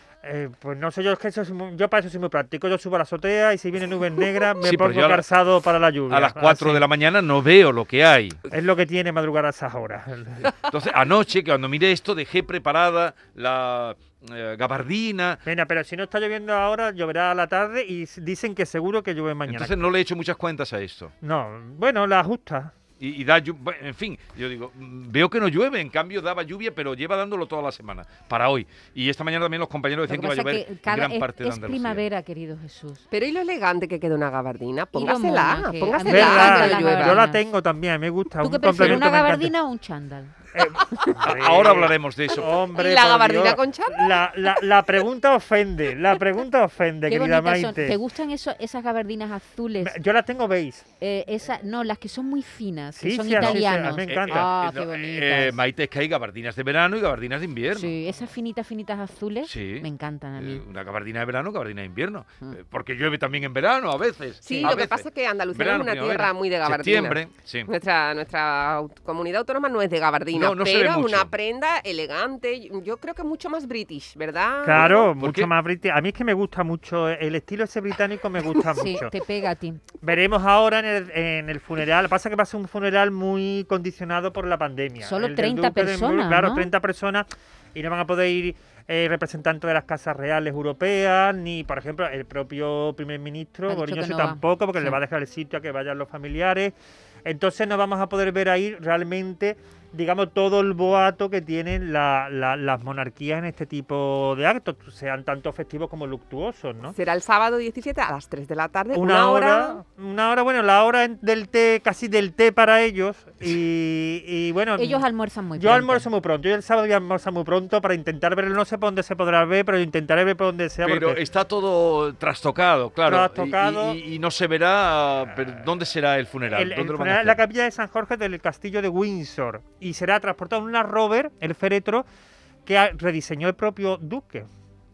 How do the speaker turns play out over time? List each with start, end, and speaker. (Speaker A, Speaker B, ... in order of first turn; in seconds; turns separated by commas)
Speaker A: 0.2-6.8, Speaker B: 4.6-5.2, Speaker B: 6.1-8.4, Speaker A: 8.5-10.5, Speaker B: 10.6-15.4, Speaker A: 15.4-19.8, Speaker B: 19.5-21.1, Speaker A: 21.2-22.7, Speaker B: 23.0-32.0, Speaker C: 30.1-33.0, Speaker D: 33.1-37.2, Speaker C: 34.9-37.4, Speaker A: 36.0-39.5, Speaker C: 38.4-40.3, Speaker A: 40.5-48.0, Speaker B: 41.1-42.5, Speaker D: 42.7-44.2, Speaker C: 47.1-50.0, Speaker A: 49.8-50.8, Speaker C: 51.0-55.6, Speaker A: 52.9-54.5, Speaker B: 53.4-57.9, Speaker C: 57.7-60.6, Speaker B: 59.4-67.7, Speaker D: 64.4-75.1, Speaker B: 70.3-71.3, Speaker A: 74.6-79.1, Speaker B: 75.2-75.5, Speaker C: 78.7-79.8, Speaker A: 80.0-106.9, Speaker C: 85.0-86.7, Speaker C: 93.7-95.0, Speaker D: 106.9-109.8, Speaker A: 108.9-115.0, Speaker C: 114.8-116.1, Speaker A: 115.6-121.2, Speaker B: 120.8-127.4, Speaker A: 123.0-124.0, Speaker A: 126.5-132.0, Speaker A: 132.7-134.5